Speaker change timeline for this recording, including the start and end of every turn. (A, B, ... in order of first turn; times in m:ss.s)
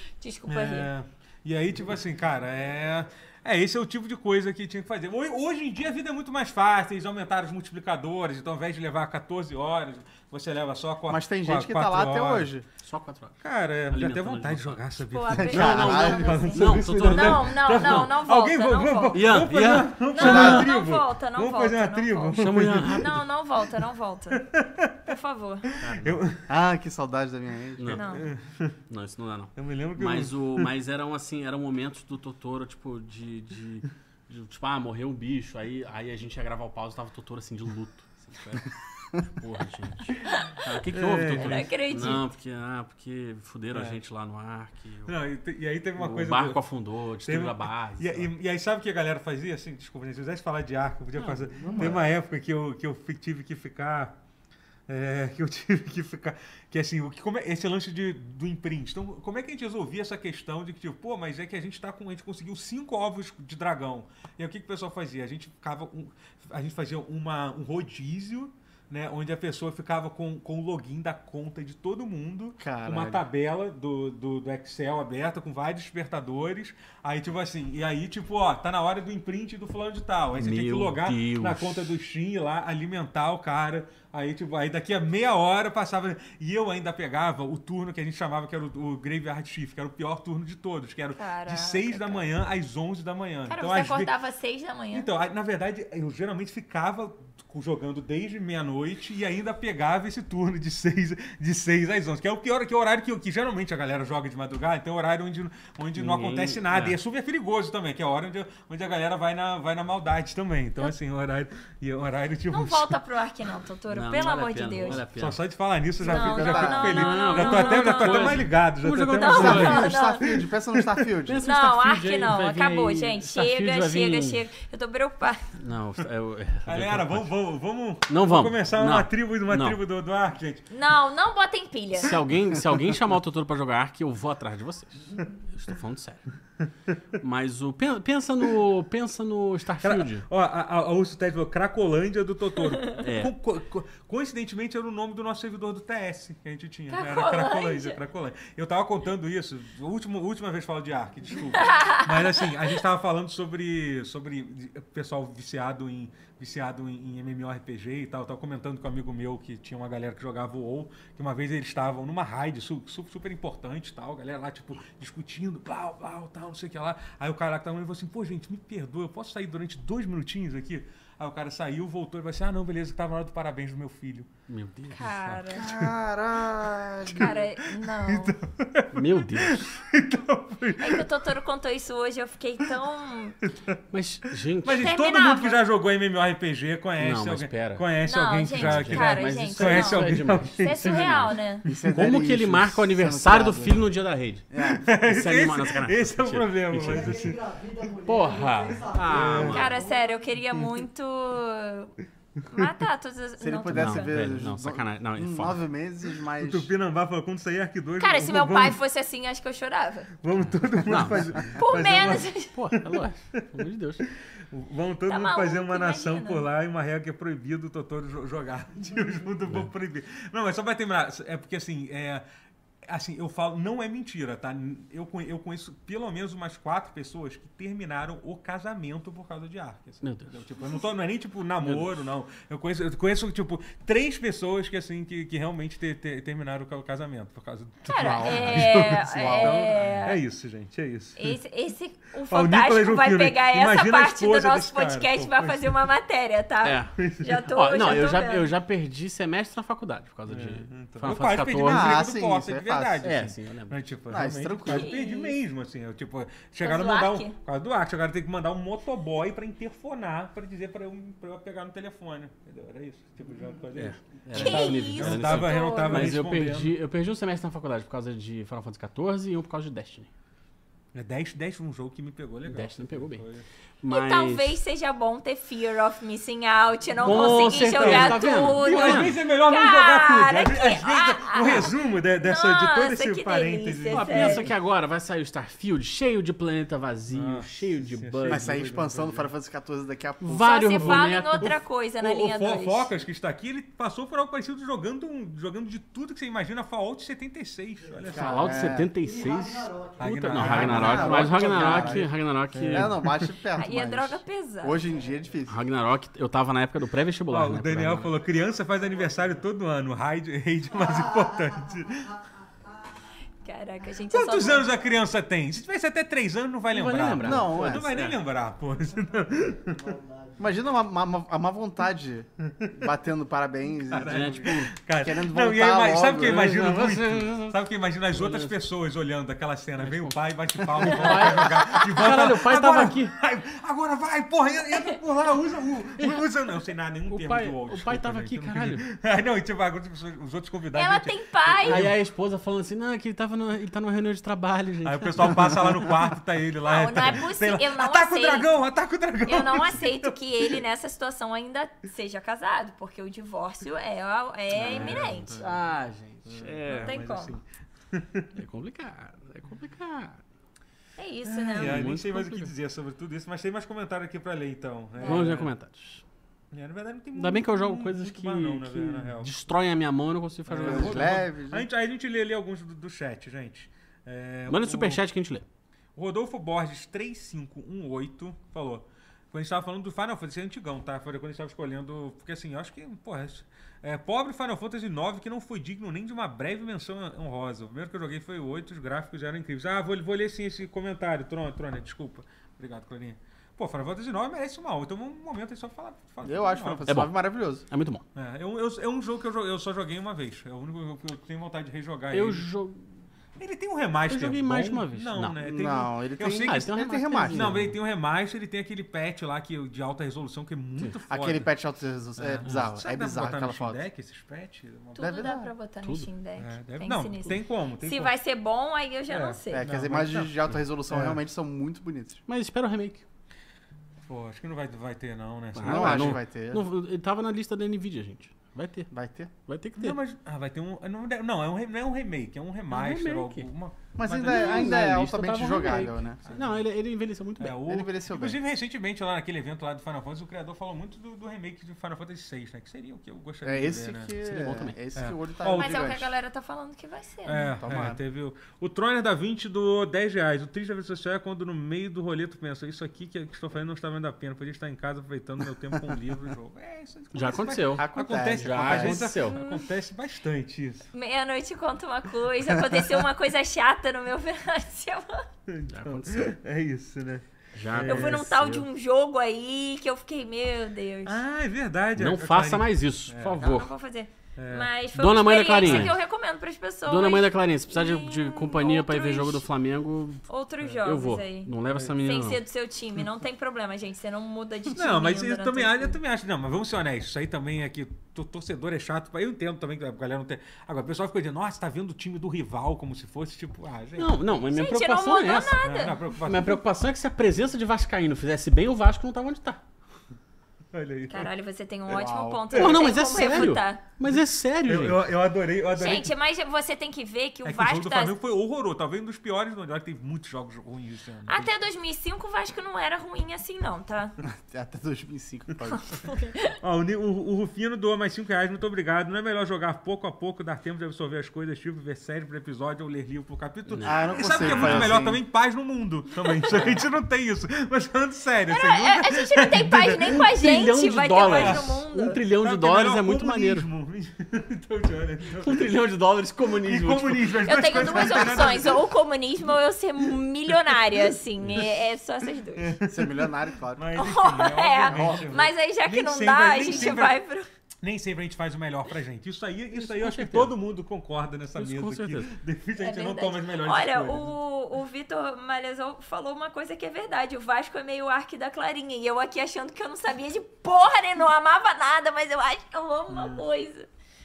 0:00.2-0:00.9 A
0:00.5-0:12.5 B
0:11.1-0:12.6 C
0:12.8-0:14.8 D
0:13.4-0:23.2 B
0:15.1-0:19.4 A
0:15.3-0:17.4 C
0:15.5-0:18.1 D
0:19.1-0:20.7 D
0:20.1-0:24.4 A
0:20.2-0:20.6 C
0:22.3-0:23.2 D
0:24.4-0:25.1 B
0:25.0-0:25.6 A
0:25.7-0:26.4 B
0:25.8-0:26.2 D
0:26.5-0:28.0 C
0:27.8-0:28.1 D
0:27.9-0:28.3 A
0:28.0-0:28.8 B
0:28.9-0:45.1 D
0:29.6-0:30.7 B
0:40.9-0:41.7 B
0:41.4-0:42.2 A
0:43.7-0:44.0 B
0:45.1-0:46.6 B
0:45.9-0:48.3 D
0:47.2-0:54.2 B
0:51.2-0:52.0 D
0:54.9-1:34.1 B
1:12.6-1:13.2 C
1:20.4-1:21.9 D
1:31.2-1:32.3 A
1:33.5-1:35.1 A
1:34.9-1:52.9 B
1:45.9-1:47.0 D
1:52.5-1:55.0 A
1:53.9-1:55.4 D
1:54.9-2:01.0 B
1:56.0-1:57.0 C
1:56.0-1:58.4 A
1:56.8-1:59.9 D
1:59.1-2:00.2 A
1:59.3-2:01.4 C
2:01.2-2:04.4 D
2:01.4-2:05.5 A
2:05.6-2:07.3 D
2:06.6-2:10.6 B
2:08.1-2:09.8 D
2:10.7-2:12.2 A
2:12.0-2:16.2 D
2:17.2-2:20.2 D
2:19.8-2:54.3 B
2:23.0-2:23.3 D
2:26.9-2:28.0 A
2:31.6-2:32.0 A
2:54.5-2:55.3 D
2:54.9-2:55.7 A
2:55.0-2:55.9 B
2:55.5-2:57.4 C
2:56.6-3:01.1 B
2:57.1-2:58.4 A
2:58.9-2:59.8 D
3:00.8-3:03.4 A
3:03.5-3:03.8 B
3:03.9-3:04.9 D
3:04.6-3:11.9 B
3:04.6-3:05.6 A
3:07.0-3:07.9 D
3:08.0-3:11.6 A
3:08.5-3:11.4 D
3:11.6-3:13.9 C
3:11.9-3:17.2 D
3:14.5-3:14.9 C
3:14.8-3:17.4 B
3:16.8-3:20.3 E
3:18.0-3:19.7 D
3:19.1-3:19.6 B
3:19.5-3:21.9 A
3:22.4-3:24.1 A
3:23.4-3:26.7 C
3:23.7-3:25.6 D
3:26.4-3:28.8 B
3:28.0-3:30.1 A
3:30.2-3:33.0 B
3:30.4-3:34.0 D
3:31.5-3:32.5 A
3:34.5-3:42.2 B
3:35.1-3:36.5 A
3:42.8-4:01.3 B
3:50.0-3:50.4 D
3:51.6-3:52.1 D
3:57.8-4:00.2 A
3:57.9-3:59.8 C
4:01.2-4:08.5 A
4:02.3-4:05.8 B
4:06.6-4:12.0 D
4:07.0-4:07.4 B
4:10.3-4:26.7 B
4:11.6-4:13.2 C
4:13.0-4:13.8 D
4:14.1-4:15.0 C
4:14.6-4:15.4 A
4:16.6-4:17.4 A
4:23.7-4:30.1 D
4:24.3-4:26.2 A
4:30.9-4:33.4 B
4:32.4-4:33.3 D
4:33.8-4:34.6 D
4:33.9-4:44.5 A
4:37.0-4:39.2 D
4:37.0-4:44.5 B
4:43.9-4:48.7 D
4:47.1-4:49.3 B
4:48.2-4:51.0 C
4:50.2-4:51.5 D
4:50.4-4:52.9 A
4:50.8-4:58.4 B
4:57.8-5:01.1 E
4:58.1-4:58.9 C
4:58.2-5:03.1 D
5:00.0-5:03.3 B
5:00.4-5:02.1 C
5:02.6-5:05.6 C
5:03.5-5:04.8 A
5:05.5-5:08.1 D
5:07.3-5:12.1 B
5:08.3-5:09.4 E
5:10.8-5:13.0 E
5:13.4-5:14.7 A
5:14.1-5:19.9 B
5:16.7-5:18.2 D
5:17.2-5:17.9 C
5:19.6-5:20.5 E
5:20.4-5:26.6 C
5:23.9-5:42.0 B
5:24.0-5:24.7 D
5:26.1-5:28.6 D
5:29.8-5:33.1 D
5:36.0-5:36.2 D
5:37.1-5:38.8 D
5:40.7-5:41.9 A
5:41.6-5:46.0 D
5:44.8-5:50.6 B
5:46.6-5:48.5 A
5:49.2-5:55.5 A
5:54.5-5:55.5 B
5:54.5-5:57.0 D
5:56.2-5:58.3 B
5:56.7-5:57.4 A
5:58.3-6:00.2 D
6:01.0-6:01.8 A
6:01.2-6:05.5 B
6:01.5-6:02.5 D
6:05.0-6:05.3 A
6:05.0-6:06.0 D
6:06.5-6:09.3 B
6:07.1-6:11.2 D
6:10.5-6:15.0 B
6:10.6-6:11.7 C
6:14.5-6:15.4 D
6:15.9-6:36.9 B
6:36.2-6:37.6 C
6:36.9-6:38.0 D
6:38.1-6:42.4 B
6:42.1-6:42.9 D
6:43.4-6:51.5 B
6:44.1-6:45.4 D
6:45.4-6:47.6 C
6:46.4-6:47.7 D
6:51.1-6:53.8 C
6:52.2-6:55.3 B
6:55.0-6:59.6 A
6:55.0-6:55.5 C
6:56.4-6:58.1 B
6:59.1-7:00.3 B
6:59.5-7:02.2 C
7:02.3-7:03.0 D
7:04.1-7:06.2 B
7:05.5-7:08.9 D
7:05.6-7:06.6 C
7:08.9-7:09.3 C
7:09.5-7:10.0 D
7:09.8-7:14.8 B
7:12.7-7:13.5 D
7:14.0-7:16.2 C
7:14.2-7:17.6 D
7:16.2-7:16.6 B
7:17.4-7:24.1 B
7:17.6-7:18.4 C
7:23.4-7:26.1 C
7:24.2-7:24.8 D
7:25.0-7:26.0 B
7:25.5-7:27.6 A
7:27.2-7:40.9 B
7:27.6-7:28.0 C
7:37.1-7:39.4 D
7:37.7-7:39.1 C
7:39.3-7:39.7 A
7:40.9-7:45.2 A
7:45.5-7:48.2 B
7:45.7-7:46.3 D
7:47.5-7:48.6 D
7:47.8-7:51.2 A
7:51.0-7:53.4 B
7:52.0-7:53.7 D
7:53.4-7:59.4 A
7:54.4-7:54.7 B
7:54.9-7:56.0 D
7:55.6-7:55.9 B
7:56.9-8:00.3 D
8:00.3-8:06.0 A
8:00.8-8:02.4 D
8:04.7-8:14.3 B
8:14.0-8:15.6 D
8:14.5-8:16.0 A
8:15.6-8:16.6 B
8:16.2-8:19.6 D
8:20.7-8:21.3 B
8:21.1-8:23.8 A
8:21.9-8:23.5 B
8:22.5-8:25.1 D
8:24.7-8:26.1 B
8:25.7-8:28.1 A
8:27.4-8:31.5 B
8:31.3-8:34.1 A
8:34.2-8:35.9 C
8:35.7-8:36.5 A
8:36.5-8:50.2 B
8:43.7-8:45.0 D
8:43.8-8:45.2 C
8:48.5-8:52.2 A
8:50.1-8:53.7 D
8:51.2-8:51.8 B
8:52.4-8:55.7 B
8:55.4-8:57.8 D
8:56.6-8:58.9 B
8:57.4-9:02.7 A
9:00.5-9:00.8 B
9:02.6-9:07.2 B
9:02.9-9:03.9 C
9:03.9-9:07.5 A
9:04.9-9:05.3 C
9:07.8-9:14.3 B
9:09.7-9:10.6 D
9:11.6-9:12.3 D
9:12.8-9:23.9 A
9:23.1-9:23.4 B